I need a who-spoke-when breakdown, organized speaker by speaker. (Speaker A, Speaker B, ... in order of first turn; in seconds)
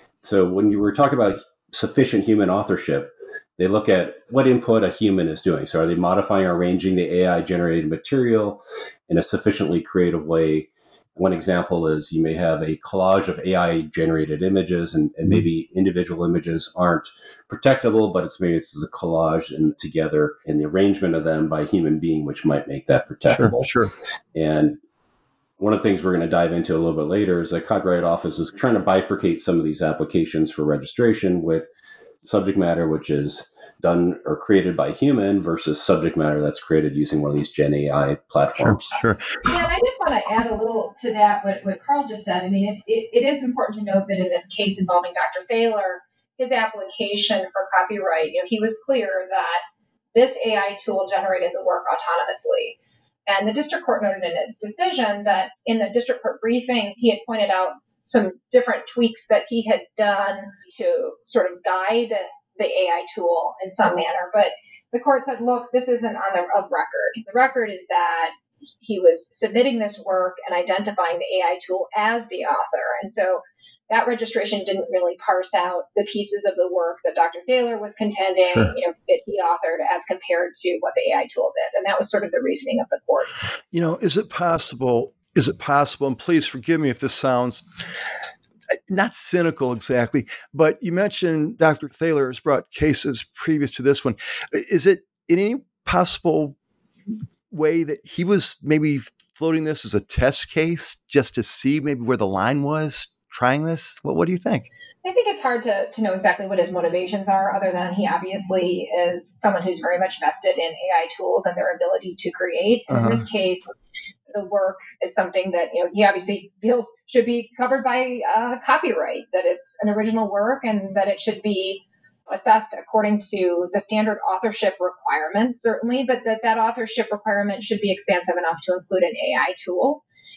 Speaker A: 0.2-23.7, 24.3-24.8, 25.6-31.7, 32.2-39.1
Speaker B: 23.3-23.9, 38.6-39.5, 78.5-78.7, 83.7-87.6, 88.9-96.5, 97.5-104.7, 112.9-113.2
Speaker C: 39.5-49.6, 50.1-83.3, 105.0-113.8, 114.3-130.0